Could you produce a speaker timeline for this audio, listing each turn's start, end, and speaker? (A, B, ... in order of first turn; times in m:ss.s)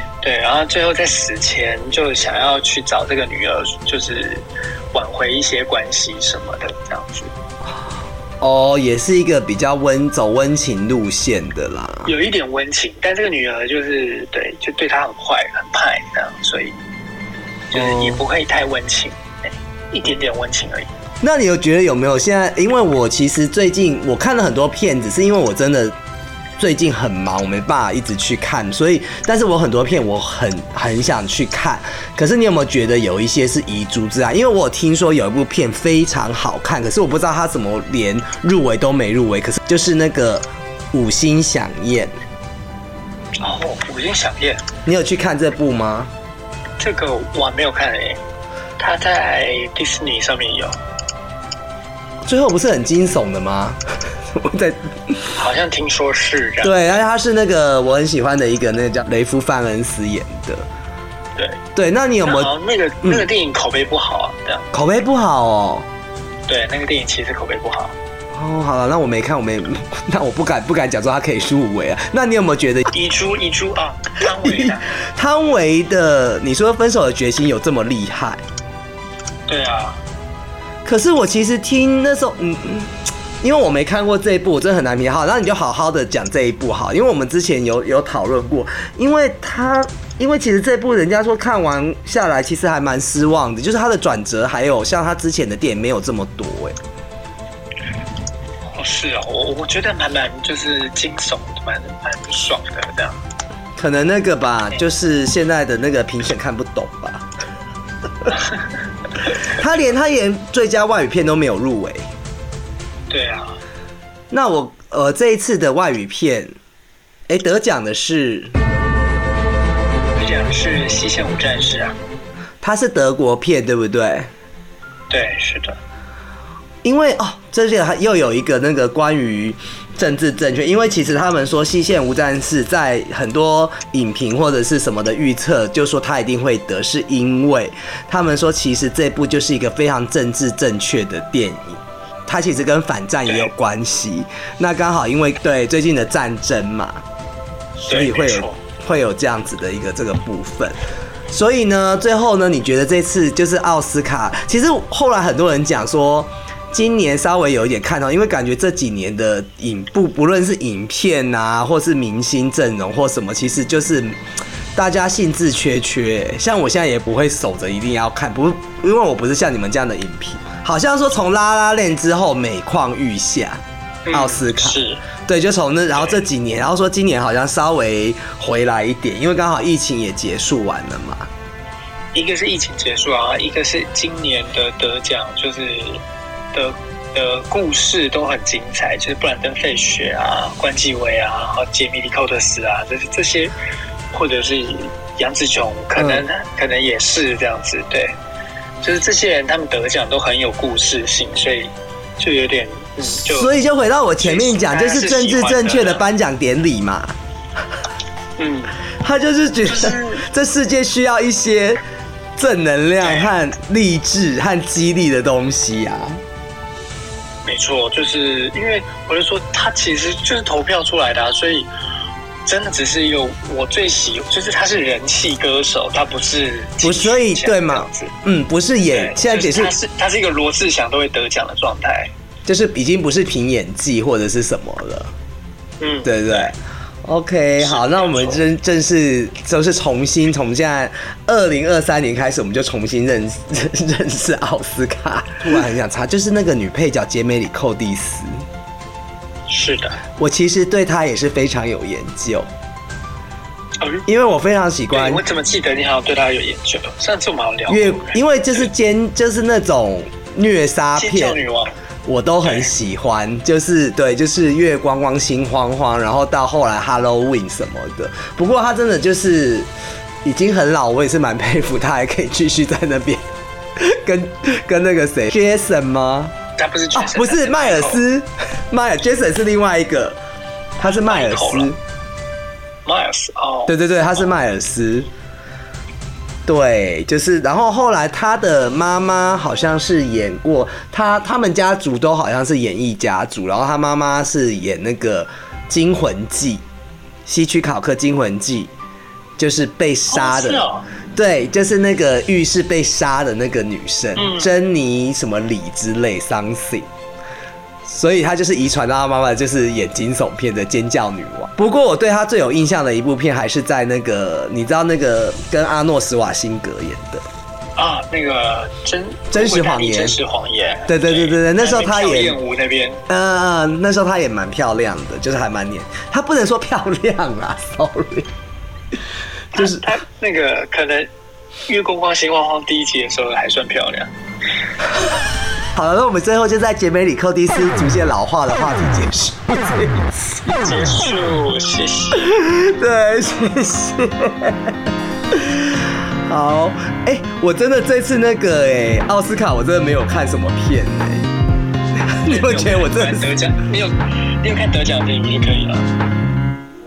0:00.2-0:07.3 A
0:07.7-0:12.1 B
0:12.0-0:16.8 A
0:17.7-0:20.9 A
0:17.7-0:18.2 B
0:21.2-0:25.9 B
0:26.6-0:42.2 B
0:43.4-0:44.6 A
0:44.8-0:46.1 B
0:46.8-0:48.2 A
0:48.8-0:50.8 A
0:52.2-0:53.8 B
0:54.3-0:54.9 B
0:55.3-0:56.9 A
0:56.6-1:00.6 B
1:01.4-1:01.6 A
1:01.7-1:02.5 B
1:02.2-1:04.7 A
1:04.7-1:05.8 B
1:06.5-1:07.9 A
1:08.3-1:12.9 B
1:12.9-1:14.9 A
1:14.4-1:18.4 B
1:19.5-1:20.0 A
1:20.8-1:36.8 B
1:38.7-1:43.2 A
1:43.8-1:47.2 B
1:49.5-1:52.0 B
1:53.1-1:53.6 A
1:54.3-1:56.5 B
1:57.3-1:58.6 B
2:00.1-2:02.0 A
2:02.6-2:04.3 B
2:05.1-2:05.8 A
2:06.8-2:27.0 B
2:27.8-2:30.8 B
2:27.9-2:28.6 A
2:31.3-2:44.2 B
2:44.7-3:01.3 B
2:54.0-2:55.0 A
3:02.1-3:06.0 A
3:06.5-3:13.5 A
3:14.1-3:18.1 A
3:16.0-3:16.2 B
3:18.8-3:23.5 A
3:23.0-3:27.1 B
3:24.2-3:26.0 A
3:28.4-3:28.8 A
3:29.0-3:31.8 B
3:29.6-3:30.2 A
3:32.4-3:36.2 B
3:33.0-3:33.3 A
3:37.4-3:41.7 A
3:42.4-3:48.1 A
3:46.8-3:49.7 B
3:48.9-3:52.1 A
3:52.4-3:55.1 B
3:55.8-3:56.5 A
3:56.0-4:08.4 B
3:57.6-3:58.4 A
4:09.5-4:10.0 A
4:10.2-4:12.5 B
4:13.8-4:14.1 A
4:14.1-4:15.2 B
4:14.9-4:18.2 A
4:17.7-4:21.4 B
4:21.0-4:21.7 A
4:22.0-4:29.7 B
4:22.4-4:22.7 A
4:30.2-4:33.2 B
4:33.8-4:36.3 B
4:36.6-4:38.0 A
4:36.9-4:40.2 B
4:40.8-4:41.8 B
4:40.8-4:41.7 A
4:42.8-4:43.8 A
4:43.7-4:45.1 B
4:46.5-4:56.6 B
4:57.2-4:58.7 B
4:59.4-5:06.9 B
5:00.1-5:00.9 A
5:04.2-5:04.5 A
5:07.8-5:17.2 B
5:17.8-5:23.0 A
5:19.3-5:20.2 B
5:20.9-5:22.4 B
5:23.1-5:28.3 B
5:29.5-5:29.9 B
5:29.5-5:31.1 A
5:31.7-5:34.1 A
5:35.7-5:40.1 B
5:40.5-5:42.4 A
5:42.2-5:44.8 B
5:45.3-5:51.3 B
5:51.9-5:53.3 B
5:52.2-5:55.9 A